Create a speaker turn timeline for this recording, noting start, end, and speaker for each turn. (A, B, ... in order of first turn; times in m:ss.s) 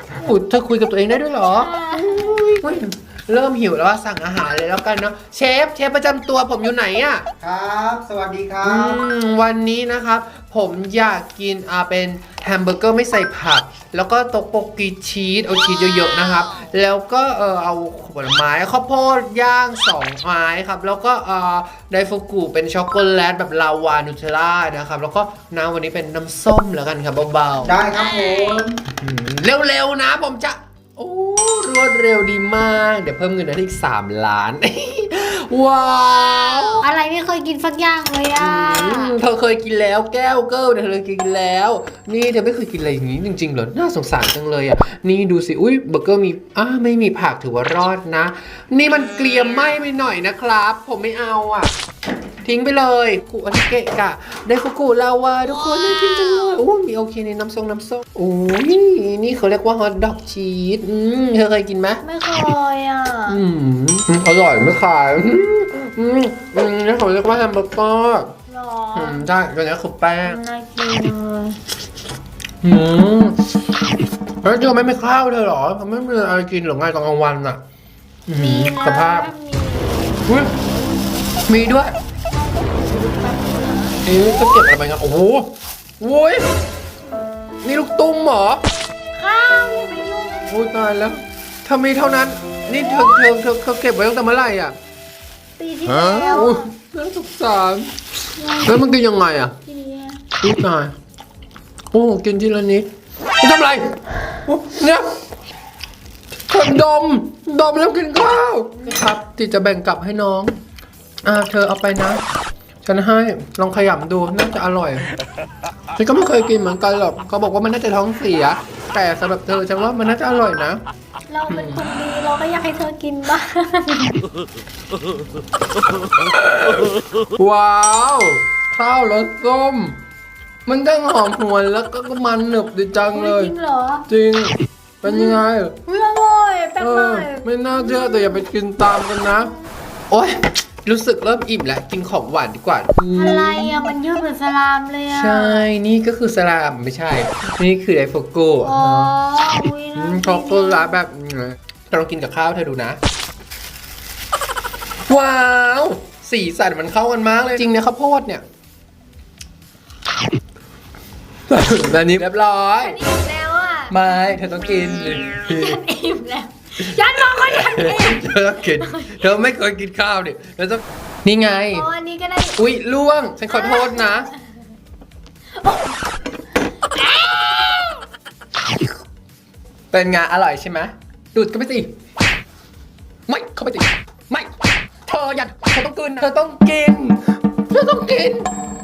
0:00.2-0:07.2 A
0:01.3-0:02.4 B
0:07.4-0:09.0 C
0:08.6-0:27.8 A
0:27.6-0:28.8 C
0:28.0-0:28.6 B
0:28.9-0:36.9 A
0:36.8-0:39.1 B
0:38.4-0:51.7 A
0:52.4-1:02.0 A
1:02.0-1:03.4 B
1:03.3-1:08.3 A
1:08.5-1:09.2 B
1:08.9-1:10.4 A
1:10.2-1:11.6 B
1:12.6-1:13.4 A
1:14.4-1:17.6 A
1:18.3-1:19.3 A
1:18.4-1:20.2 B
1:20.3-1:20.5 A
1:21.5-1:22.0 A
1:22.6-1:24.0 B
1:24.0-1:26.5 A
1:27.6-1:28.6 A
1:29.2-1:30.5 B
1:30.5-1:34.8 A
1:35.6-1:36.7 B
1:36.2-1:37.9 A
1:38.4-1:38.9 B
1:38.6-1:39.6 A
1:39.7-1:40.2 B
1:40.4-1:40.9 A
1:41.9-1:42.9 A
1:43.4-1:45.1 A
1:46.5-1:50.6 A
1:51.2-1:52.2 A
1:52.8-1:55.0 A
1:56.0-2:00.8 A
2:01.3-2:04.2 B
2:01.5-2:01.8 A
2:06.2-2:10.0 A
2:10.7-2:13.5 A
2:13.1-2:14.1 B
2:14.1-2:15.8 A
2:15.0-2:18.4 B
2:16.8-2:19.5 A
2:20.1-2:23.8 A
2:23.1-2:25.7 B
2:25.1-2:29.1 A
2:28.6-2:31.0 B
2:30.0-2:33.0 A
2:35.1-2:38.4 A
2:41.5-2:43.0 A
2:42.8-2:44.0 B
2:43.9-2:45.8 A
2:45.2-2:49.3 B
2:47.0-2:51.9 A
2:51.7-2:52.6 B
2:52.6-2:54.3 A
2:53.5-2:54.4 B
2:55.6-2:56.0 B
2:57.0-2:58.0 B
2:59.9-3:01.9 A
3:03.3-3:04.5 A
3:05.1-3:08.5 A